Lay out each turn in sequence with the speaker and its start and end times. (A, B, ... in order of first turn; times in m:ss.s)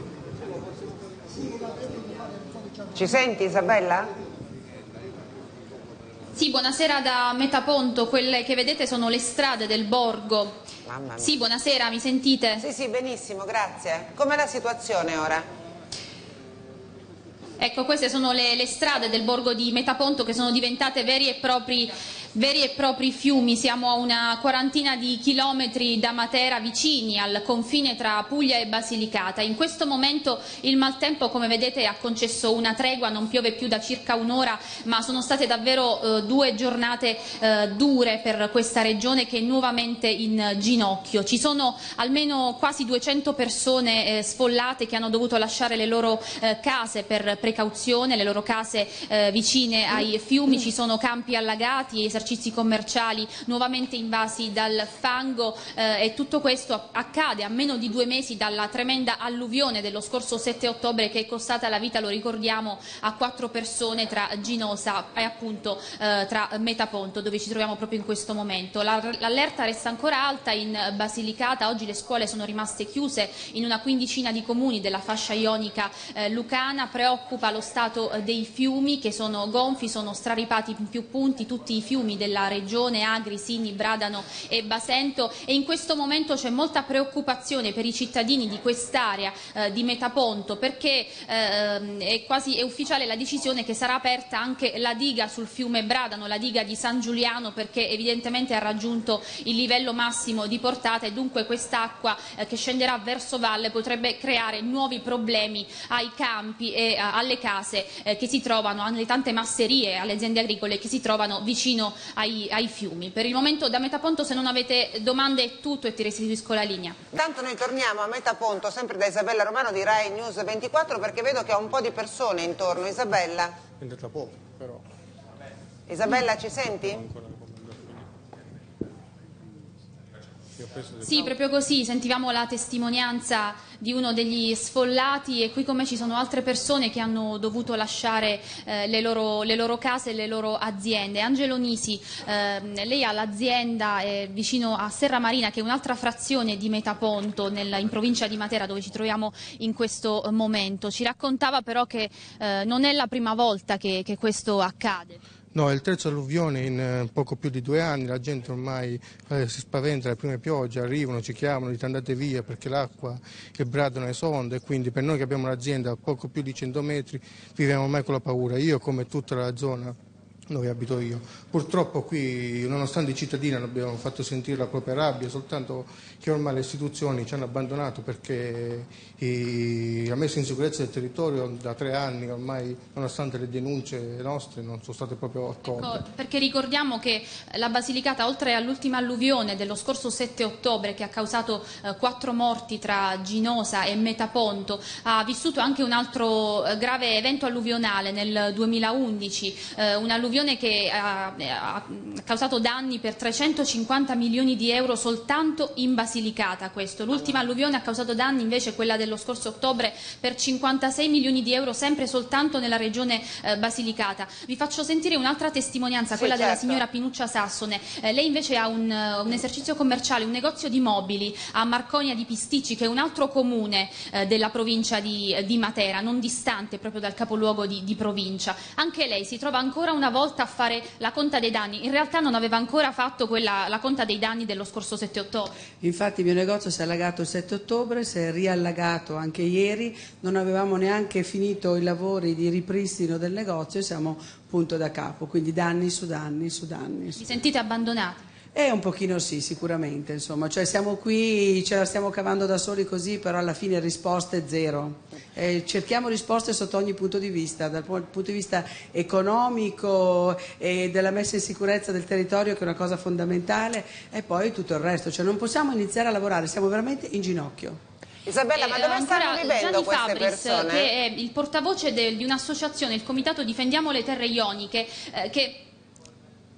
0:02.9-0:04.1 A
0:06.3-0:10.6 B
0:10.8-0:11.3 A
0:11.2-0:12.6 B
0:12.6-0:15.5 A
0:17.6-1:57.0 B
1:57.1-2:03.6 A
2:03.8-2:04.8 C
2:05.9-2:07.0 A
2:06.8-2:08.0 C
2:10.6-2:11.3 C
2:11.0-2:35.2 B
2:35.5-2:50.0 C
2:50.5-3:06.0 C
3:05.6-3:55.5 B
3:36.1-3:36.8 A
3:55.8-4:07.2 D
4:07.2-4:08.3 B
4:08.5-4:27.8 D
4:28.2-4:30.9 A
4:28.5-4:35.6 B